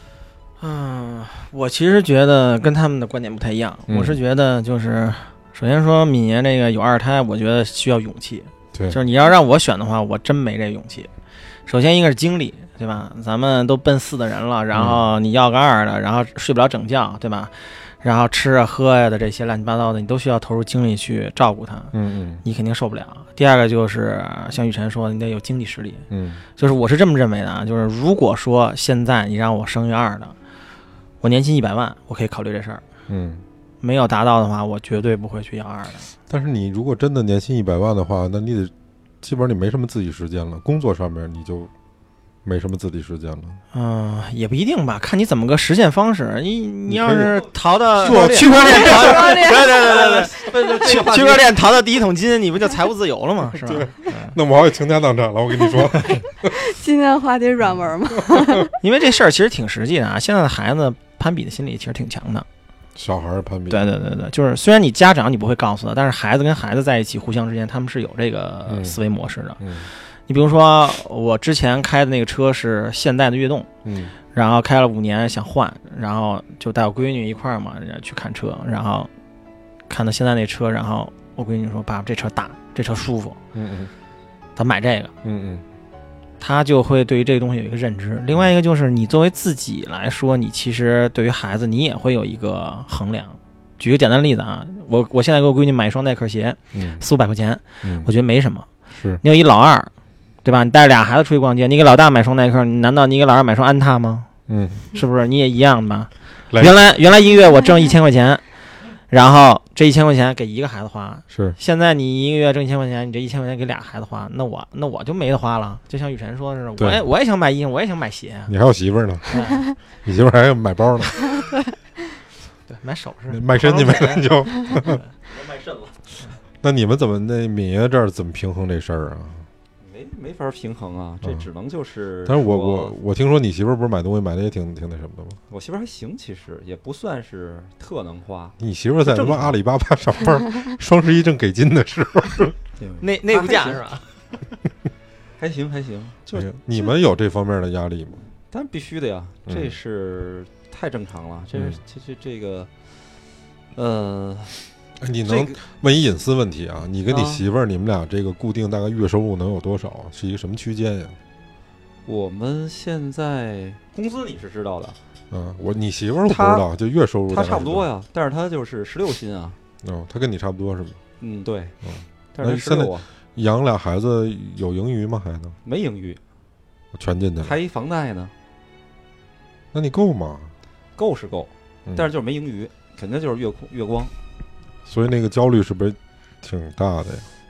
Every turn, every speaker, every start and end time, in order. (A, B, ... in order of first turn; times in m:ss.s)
0:00.6-0:11.1 A
0:03.9-0:04.2 B
0:08.7-0:09.0 B
0:11.7-0:26.1 A
0:14.7-0:15.0 B
0:21.9-0:22.4 B
0:26.1-0:26.4 B
0:26.6-0:30.4 A
0:31.2-0:32.8 A
0:33.1-0:33.4 B
0:33.8-0:36.1 A
0:36.3-0:41.7 B
0:42.4-0:43.6 B
0:43.7-0:54.4 A
0:46.9-0:47.4 B
0:48.0-0:51.5 C
0:48.0-0:49.3 B
0:48.8-0:49.7 D
0:53.5-0:56.5 B
0:56.5-0:58.7 D
0:58.2-0:58.7 B
0:58.8-1:02.5 A
1:03.0-1:04.0 B
1:03.7-1:13.7 A
1:08.7-1:09.0 B
1:09.6-1:09.9 B
1:13.8-1:14.2 B
1:14.3-1:19.1 A
1:19.9-1:23.4 A
1:23.5-1:23.9 B
1:24.6-1:25.1 A
1:25.2-1:25.6 B
1:26.4-1:38.7 A
1:36.7-1:37.0 B
1:37.8-1:38.1 B
1:38.9-1:39.2 B
1:39.2-1:39.9 A
1:40.4-1:44.3 A
1:44.5-1:44.9 B
1:44.9-1:48.4 A
1:46.5-1:46.8 B
1:49.1-1:58.5 A
1:51.3-1:51.6 B
1:58.5-1:59.3 B
1:59.3-1:59.7 A
2:00.0-2:01.2 B
2:02.7-2:05.1 A
2:03.3-2:05.0 B
2:05.2-2:06.0 C
2:06.6-2:09.5 B
2:09.8-2:13.0 C
2:12.3-2:15.4 B
2:15.5-2:19.5 C
2:18.6-2:22.6 B
2:22.8-2:23.8 C
2:23.0-2:24.1 A
2:25.4-2:26.9 C
2:26.3-2:28.2 B
2:28.5-2:32.9 C
2:29.5-2:29.7 B
2:31.5-2:31.8 B
2:33.7-2:34.6 C
2:35.0-2:41.2 B
2:35.2-2:35.6 C
2:37.1-2:37.4 C
2:42.1-2:45.0 C
2:45.3-2:47.8 B
2:46.3-2:46.7 C
2:47.3-2:49.6 C
2:49.8-2:51.0 B
2:51.2-2:51.8 C
2:51.8-2:55.6 B
2:52.3-2:53.1 C
2:55.6-2:56.2 C
2:56.9-2:57.6 B
2:57.4-2:58.3 C
2:59.7-3:00.5 B
3:01.0-3:04.1 C
3:04.8-3:07.3 B